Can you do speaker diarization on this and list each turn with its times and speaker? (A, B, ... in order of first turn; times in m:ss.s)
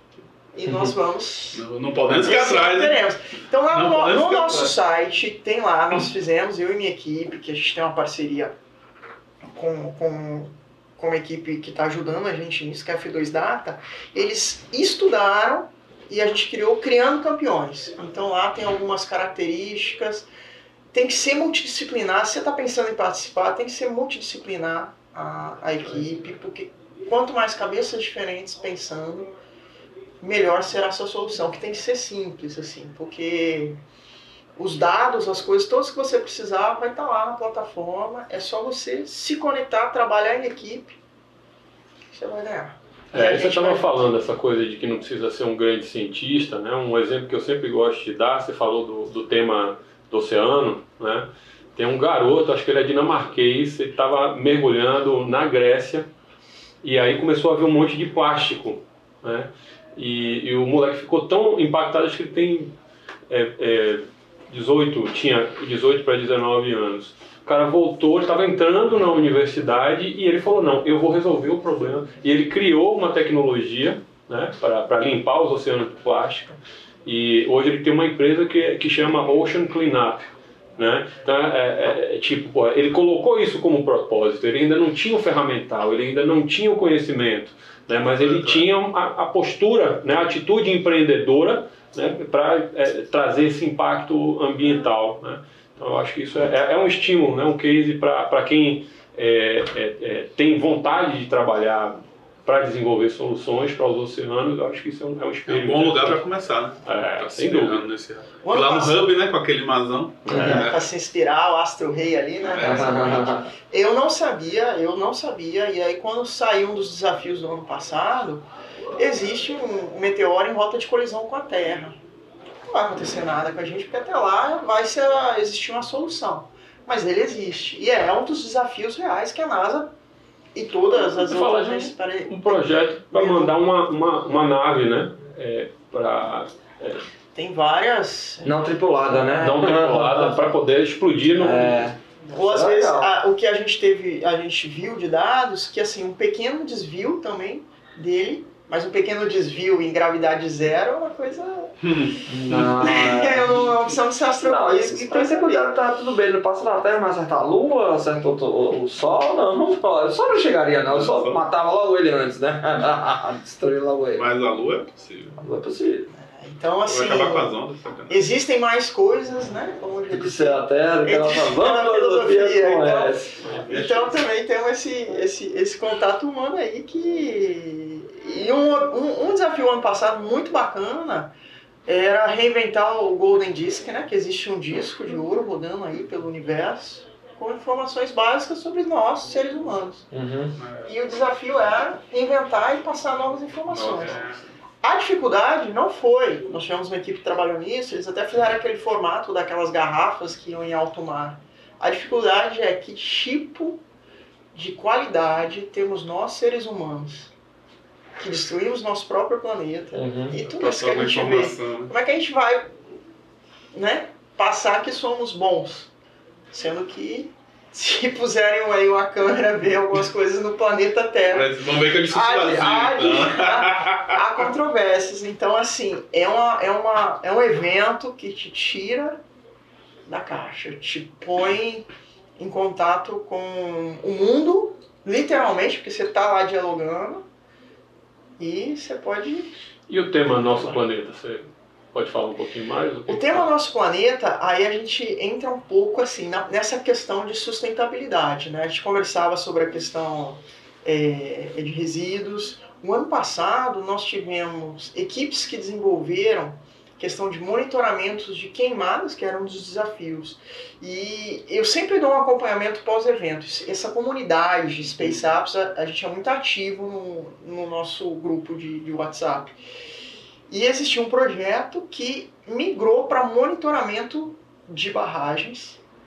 0:00.5-0:08.5 A
0:01.5-0:03.0 B
0:03.7-0:04.8 B
0:09.5-0:20.3 A
0:20.9-0:29.3 A
0:30.2-0:33.8 A
0:34.6-0:41.0 A
0:42.1-0:44.1 A
0:43.1-0:56.1 C
0:56.8-1:02.8 C
1:03.3-1:46.2 C
1:28.2-1:28.6 B
1:45.5-1:50.9 B
1:46.8-1:47.9 C
1:48.4-1:49.1 A
1:50.3-1:50.6 D
1:50.3-1:50.7 C
1:50.3-2:02.0 A
1:52.4-1:53.0 B
1:52.6-1:53.5 D
2:02.6-2:09.9 A
2:10.6-2:13.6 A
2:10.9-2:17.0 C
2:17.3-2:18.6 A
2:18.4-2:20.4 D
2:19.4-2:21.9 C
2:21.4-2:23.1 D
2:22.2-2:31.8 A
2:31.8-2:33.3 B
2:32.3-2:33.7 D
2:32.8-2:35.7 A
2:34.4-2:44.3 D
2:40.9-2:41.5 B
2:44.2-2:45.4 B
2:45.4-2:46.1 D
2:46.1-2:47.5 A
2:46.8-2:48.2 B
2:48.1-3:01.3 A
2:50.1-2:53.4 D
2:53.6-2:54.2 B
3:01.9-3:10.1 A
3:10.1-3:10.6 D
3:10.6-3:10.9 B
3:10.8-3:14.2 A
3:13.7-3:14.5 B
3:14.8-3:23.8 A
3:24.5-3:27.3 A
3:28.2-3:32.8 A
3:30.0-3:30.4 D
3:30.4-3:31.9 B
3:33.7-3:35.9 A
3:36.5-3:41.5 A
3:41.3-3:44.2 B
3:42.0-3:49.2 A
3:50.1-3:57.2 A
3:58.4-3:59.5 A
3:59.9-4:03.5 C
4:03.1-4:29.6 A
4:30.5-4:35.8 A